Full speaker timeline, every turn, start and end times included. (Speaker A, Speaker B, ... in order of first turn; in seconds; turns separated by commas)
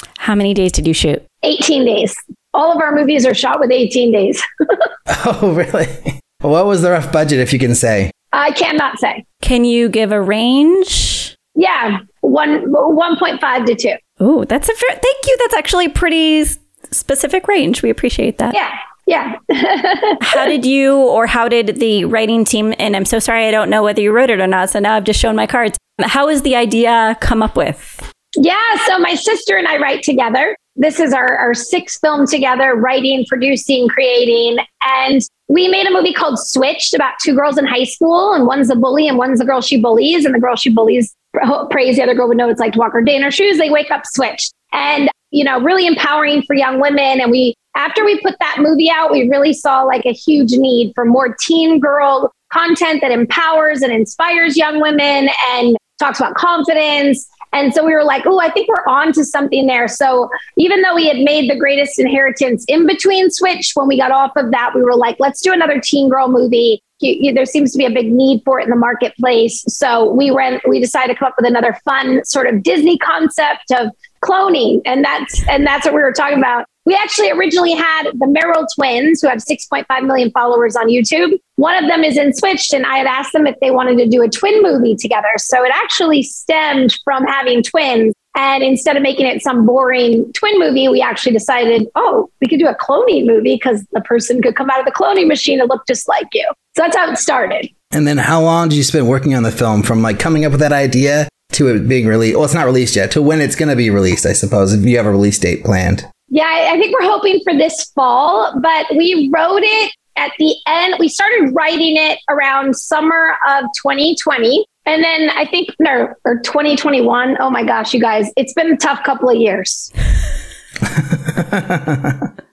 Speaker A: 0.2-1.2, Speaker B: 1.4-4.9, Speaker C: 5.1-8.1, Speaker B: 8.3-9.2, Speaker A: 9.4-11.3, Speaker B: 11.5-14.0, Speaker A: 14.2-18.6, Speaker B: 18.5-20.5, Speaker A: 20.2-28.0, Speaker B: 28.4-97.7, Speaker C: 97.9-106.1, Speaker B: 106.3-119.9, Speaker C: 120.8-122.2